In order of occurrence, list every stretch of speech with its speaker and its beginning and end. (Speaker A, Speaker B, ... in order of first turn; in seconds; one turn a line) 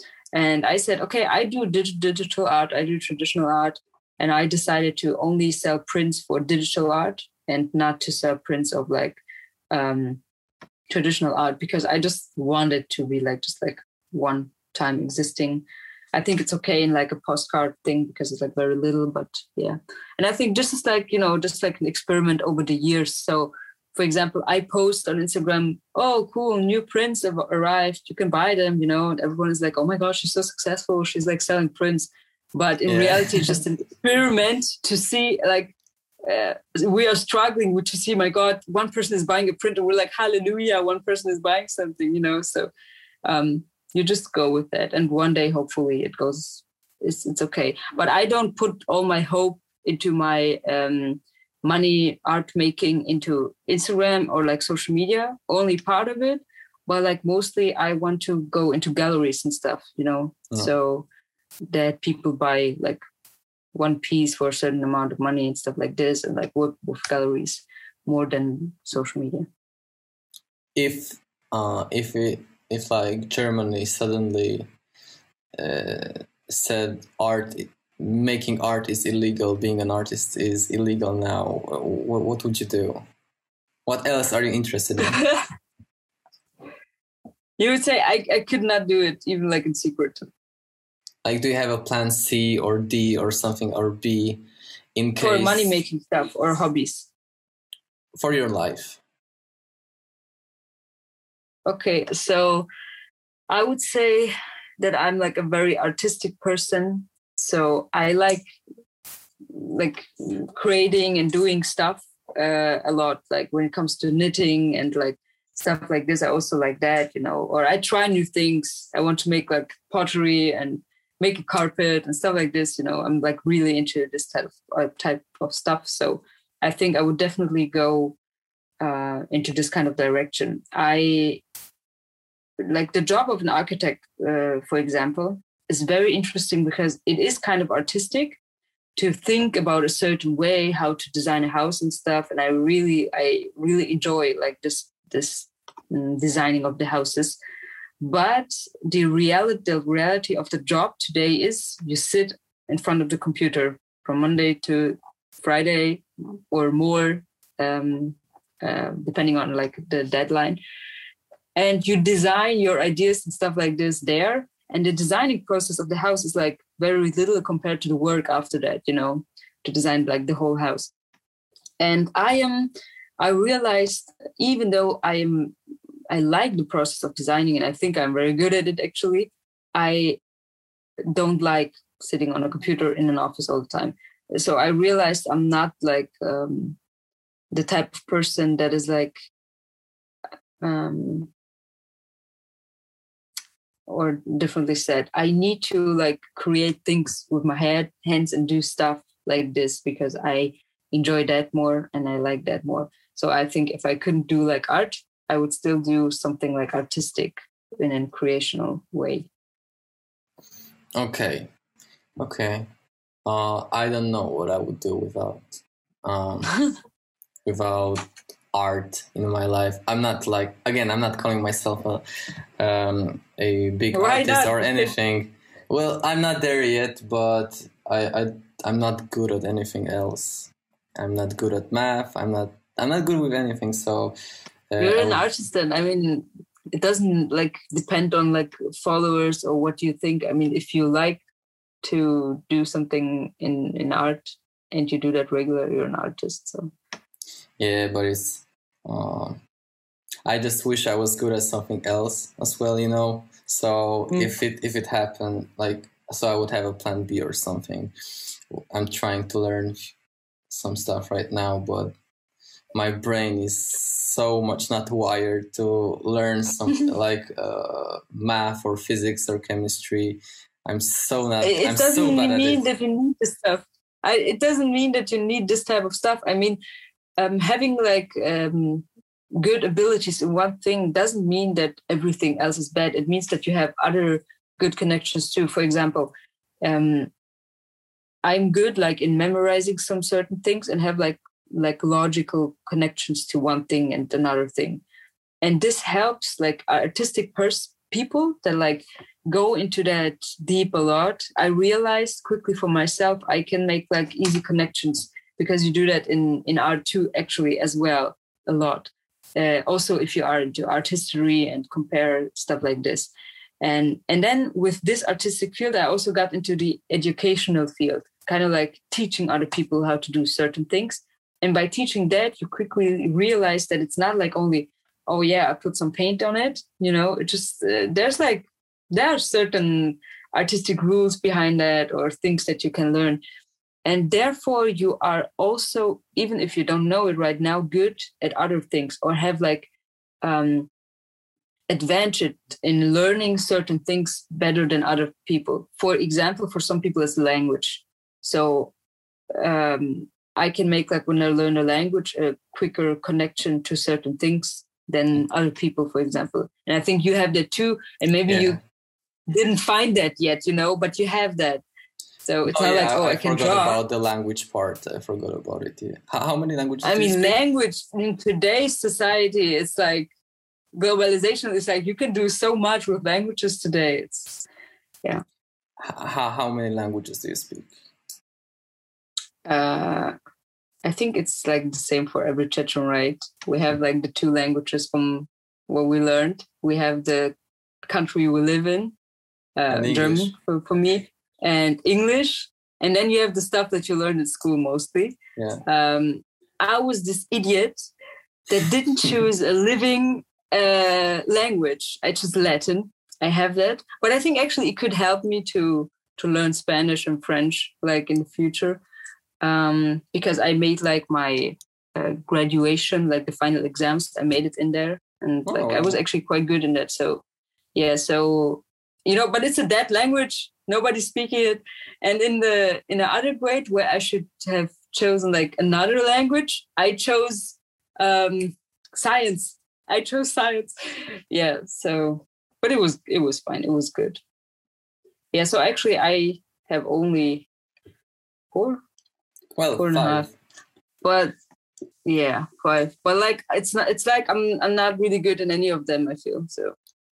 Speaker A: 0.3-9.2
Speaker A: 9.7-10.2
Speaker A: 10.9-42.7
Speaker B: 32.9-33.6
Speaker A: 43.2-61.1
Speaker A: 61.7-63.0
Speaker A: 63.7-69.5
Speaker B: 70.8-74.7
Speaker B: 75.6-83.0
Speaker B: 83.9-85.2
Speaker A: 85.0-85.4
Speaker A: 87.6-90.3
Speaker B: 91.2-94.4
Speaker B: 95.0-95.8
Speaker A: 95.2-97.1
Speaker B: 98.2-99.0
Speaker A: 101.7-102.7
Speaker A: 103.5-108.5
Speaker A: 109.5-128.2
Speaker A: 128.8-131.4
Speaker A: 132.6-138.4
Speaker A: 139.0-147.4
Speaker A: 148.0-160.6
Speaker A: 161.6-170.9
Speaker A: 171.8-175.6
Speaker A: 176.1-180.2
Speaker A: 181.1-186.8
Speaker A: 187.5-189.2
Speaker A: 190.6-191.3
Speaker A: 193.9-209.3
Speaker B: 211.0-211.5
Speaker B: 212.2-212.7
Speaker B: 213.3-216.6
Speaker B: 217.5-222.0
Speaker B: 222.6-234.2
Speaker A: 223.9-224.9
Speaker B: 234.7-235.3
Speaker A: 234.8-241.2
Speaker A: 241.8-246.7
Speaker B: 247.6-249.4
Speaker B: 250.3-257.9
Speaker A: 254.1-254.4
Speaker B: 258.5-259.9
Speaker B: 260.5-261.9
Speaker B: 262.7-272.6
Speaker A: 271.4-276.6
Speaker A: 277.2-286.1
Speaker A: 286.6-287.1
Speaker A: 288.2-294.8
Speaker A: 295.4-333.2
Speaker A: 333.9-339.7
Speaker A: 340.2-340.7
Speaker A: 341.7-348.7
Speaker A: 349.4-358.6
Speaker B: 358.3-358.6
Speaker A: 359.3-361.6
Speaker A: 362.2-363.8
Speaker B: 362.4-367.4
Speaker A: 366.8-370.1
Speaker A: 370.8-374.5
Speaker B: 375.8-377.8
Speaker A: 379.5-380.1
Speaker A: 380.9-387.4
Speaker A: 387.9-388.9
Speaker A: 389.6-397.8
Speaker B: 389.7-390.3
Speaker B: 395.4-395.6
Speaker A: 398.5-408.8
Speaker A: 409.4-417.2
Speaker B: 415.5-416.0
Speaker A: 417.8-430.7
Speaker A: 431.3-434.2
Speaker A: 435.3-437.5
Speaker A: 438.5-438.8
Speaker B: 439.6-440.3
Speaker A: 439.8-440.3
Speaker A: 441.0-441.3
Speaker A: 442.1-446.7